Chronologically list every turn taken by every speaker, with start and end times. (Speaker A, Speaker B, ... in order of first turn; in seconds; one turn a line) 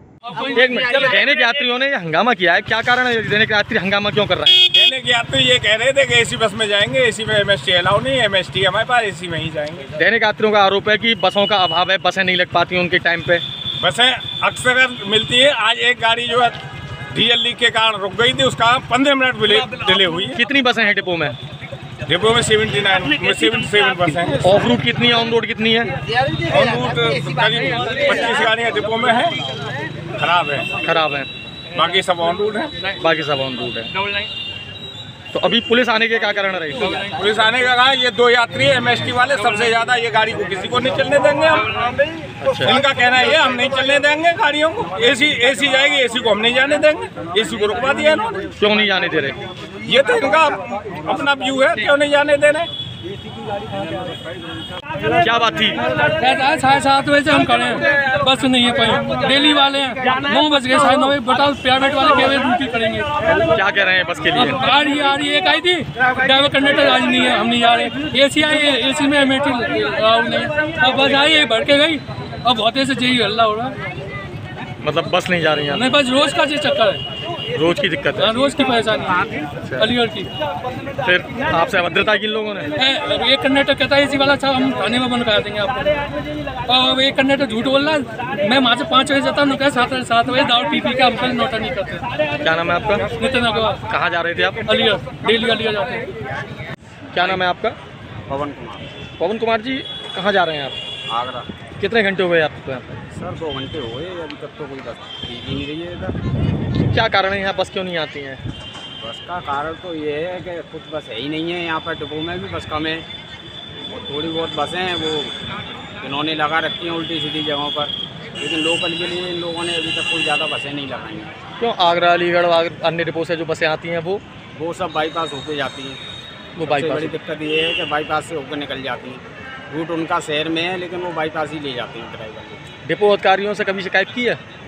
Speaker A: 0.4-4.7
Speaker B: 4.7-9.9
Speaker A: 10.0-13.4
Speaker B: 13.8-16.6
Speaker B: 17.1-20.4
Speaker A: 20.3-21.4
Speaker B: 22.1-24.5
Speaker A: 24.4-25.9
Speaker B: 26.4-29.4
Speaker B: 30.2-30.8
Speaker A: 30.8-31.3
Speaker B: 31.7-32.9
Speaker A: 33.0-33.9
Speaker A: 35.3-37.0
Speaker B: 37.1-41.8
Speaker A: 42.4-42.8
Speaker B: 42.6-48.5
Speaker A: 48.6-49.4
Speaker B: 49.9-52.7
Speaker A: 55.2-55.8
Speaker C: 56.2-63.1
Speaker A: 63.5-64.6
Speaker C: 64.4-73.8
Speaker A: 74.8-76.0
Speaker C: 75.7-77.0
Speaker A: 77.5-78.5
Speaker C: 78.2-80.3
Speaker A: 81.0-82.7
Speaker C: 82.8-86.0
Speaker C: 86.7-92.1
Speaker A: 92.4-93.1
Speaker C: 93.2-93.8
Speaker A: 93.9-94.7
Speaker C: 94.7-96.1
Speaker A: 97.1-97.8
Speaker D: 98.3-99.0
Speaker A: 99.2-100.8
Speaker D: 101.1-101.5
Speaker A: 101.8-103.0
Speaker D: 103.1-106.2
Speaker A: 106.8-108.4
Speaker D: 109.0-113.1
Speaker D: 113.9-115.3
Speaker D: 116.0-121.4
Speaker A: 121.6-124.2
Speaker D: 124.5-126.0
Speaker A: 126.6-127.2
Speaker D: 126.6-132.7
Speaker A: 132.8-134.4